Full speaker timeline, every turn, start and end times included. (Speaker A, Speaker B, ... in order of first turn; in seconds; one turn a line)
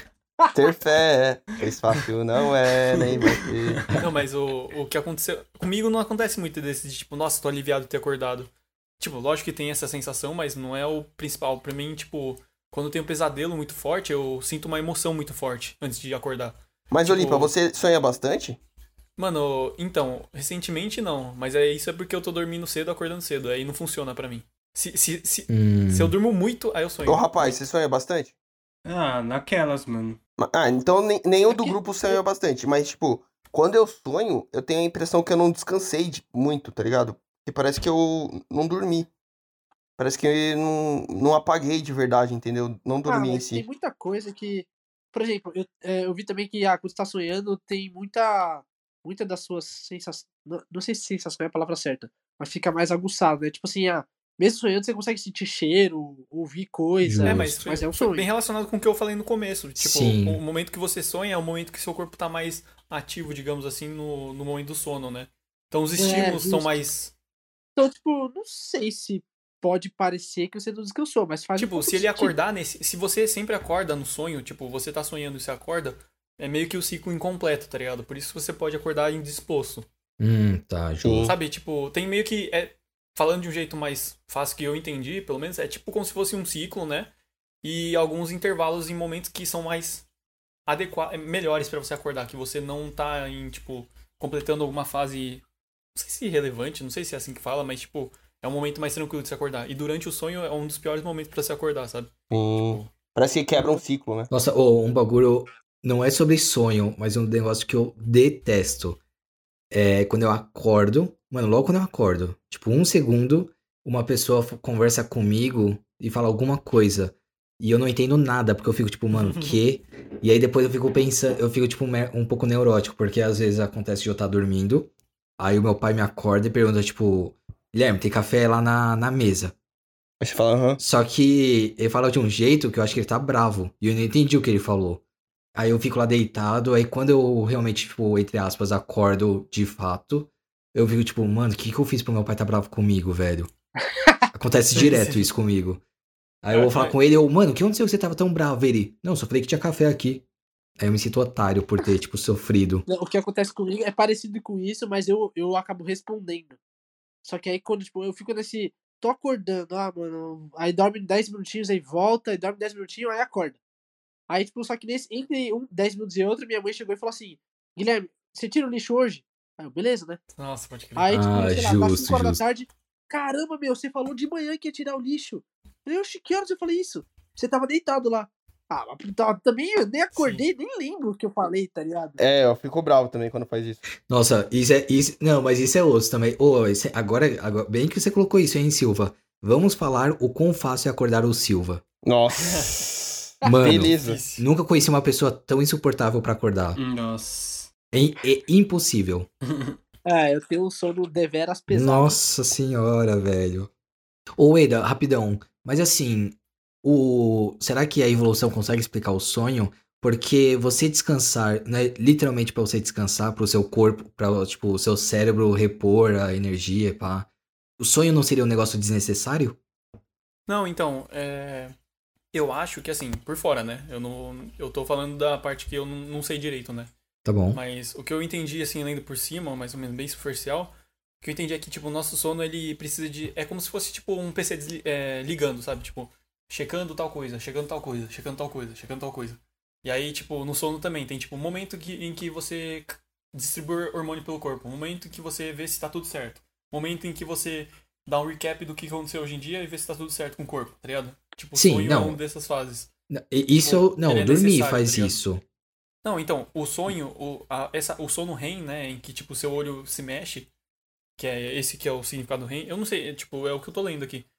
Speaker A: 0.5-3.9
Speaker B: 3.3-3.8
Speaker C: 3.9-17.5
Speaker A: 16.9-18.6
Speaker C: 19.2-27.6
Speaker D: 25.5-26.1
Speaker A: 27.0-28.3
Speaker B: 28.9-30.2
Speaker A: 30.4-39.1
Speaker E: 31.5-32.2
Speaker A: 40.0-43.6
Speaker E: 43.1-58.3
Speaker D: 57.0-57.5
Speaker C: 57.2-67.1
Speaker D: 59.8-60.4
Speaker E: 66.0-66.8
Speaker E: 67.8-72.3
Speaker C: 71.6-79.9
Speaker D: 80.2-81.3
Speaker A: 81.0-81.3
Speaker C: 81.2-87.1
Speaker C: 87.6-90.0
Speaker C: 90.7-95.4
Speaker C: 96.0-102.1
Speaker A: 102.3-104.3
Speaker D: 104.3-109.0
Speaker D: 109.7-129.5
Speaker C: 119.1-119.6
Speaker A: 130.2-130.8
Speaker D: 130.8-135.0
Speaker D: 135.6-143.5
Speaker D: 144.3-145.8
Speaker C: 144.8-145.2
Speaker D: 146.4-150.2
Speaker C: 146.5-147.0
Speaker D: 150.8-152.8
Speaker E: 152.9-156.6
Speaker E: 157.2-163.6
Speaker E: 164.3-170.2
Speaker C: 170.4-171.1
Speaker E: 171.0-182.2
Speaker D: 171.1-172.4
Speaker C: 180.2-180.4
Speaker A: 182.2-183.8
Speaker D: 184.1-191.8
Speaker A: 192.1-194.2
Speaker D: 193.4-196.8
Speaker C: 194.0-194.5
Speaker B: 196.8-197.7
Speaker D: 197.9-199.3
Speaker B: 199.5-199.8
Speaker E: 200.1-202.2
Speaker D: 201.7-203.7
Speaker D: 204.4-217.3
Speaker D: 217.8-219.6
Speaker C: 220.5-221.7
Speaker C: 222.3-226.9
Speaker D: 227.2-227.6
Speaker C: 227.5-252.9
Speaker D: 251.6-252.2
Speaker D: 253.1-255.4
Speaker C: 253.6-255.2
Speaker C: 256.0-260.5
Speaker C: 261.2-264.3